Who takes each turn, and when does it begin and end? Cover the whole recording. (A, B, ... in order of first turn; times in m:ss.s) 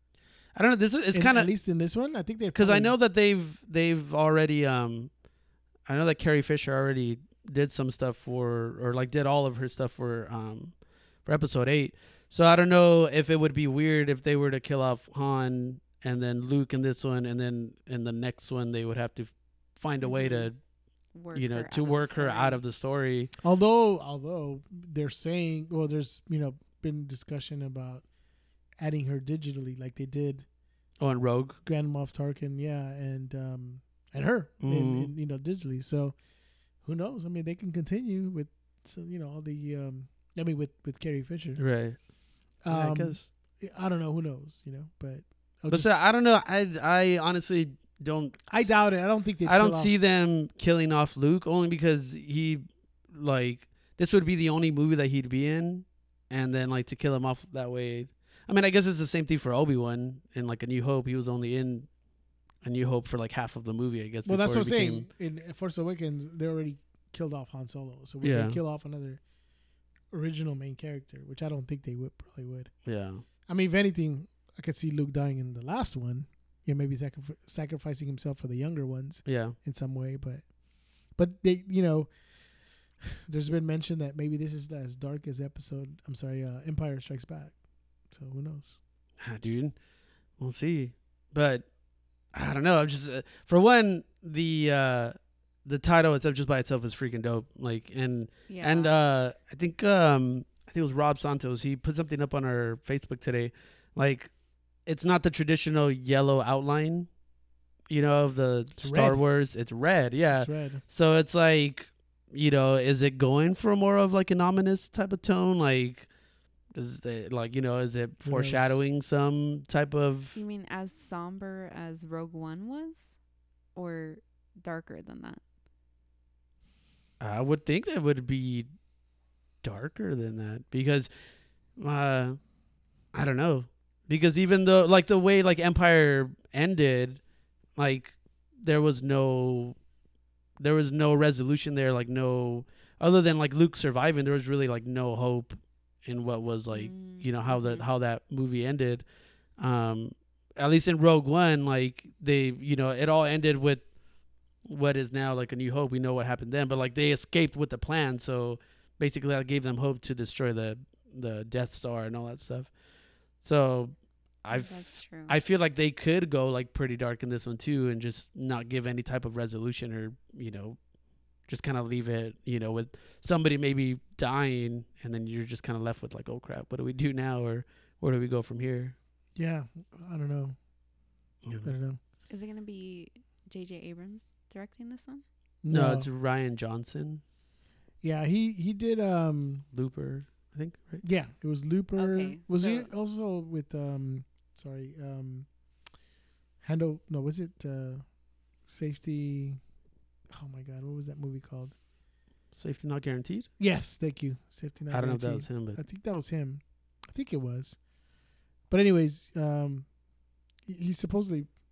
0:00.5-0:01.5 A
0:01.1-0:03.0 B
0:02.5-0:05.1 A
0:05.8-0:20.6 A
0:20.0-0:20.5 C
0:21.1-0:22.6 C
0:21.3-0:23.3 A
0:23.4-0:28.0 B
0:28.8-0:30.4 B
0:31.0-0:31.6 A
0:31.6-0:36.2 B
0:34.6-0:35.1 A
0:36.8-0:41.6 B
0:41.6-0:42.0 A
0:42.6-0:45.9 B
0:42.7-0:43.3 A
0:45.7-0:48.8 A
0:48.5-0:49.9 B
0:49.4-1:01.9 A
1:02.6-1:05.0 A
1:04.2-1:09.2 B
1:08.2-1:08.6 A
1:10.1-1:12.7 B
1:12.8-1:13.2 A
1:13.4-1:20.4 B
1:19.2-1:19.6 A
1:21.2-1:22.1 B
1:23.1-1:27.5 B
1:28.1-1:28.8 B
1:29.2-1:29.8 A
1:30.4-1:31.7 A
1:32.3-1:44.3 A
1:38.5-1:38.9 C
1:44.8-1:47.1 A
1:47.9-1:56.1 A
1:48.8-1:49.2 B
1:50.3-1:50.8 B
1:56.7-2:00.4 A
1:58.2-1:58.8 B
2:00.3-2:03.1 C
2:03.7-2:05.4 C
2:07.2-2:08.7 A
2:09.6-2:11.1 A
2:11.8-2:12.4 A
2:13.1-2:17.2 A
2:17.7-2:19.8 A
2:20.6-2:29.0 A
2:26.7-2:27.8 C
2:29.6-2:33.9 A
2:34.6-2:42.7 A
2:43.4-2:50.8 A
2:44.5-2:45.3 C
2:51.4-2:59.0 A
2:59.4-3:00.6 B
3:01.4-3:01.7 A
3:01.6-3:02.0 B
3:02.3-3:05.2 C
3:05.6-3:06.1 B
3:05.7-3:07.2 A
3:08.0-3:09.6 B
3:09.7-3:11.0 A
3:11.0-3:15.5 B
3:12.0-3:12.9 C
3:16.6-3:18.1 B
3:18.6-3:19.6 B
3:20.3-3:21.7 B
3:22.5-3:23.5 A
3:23.6-3:27.8 B
3:24.9-3:25.8 A
3:28.7-3:29.9 B
3:30.6-3:31.5 B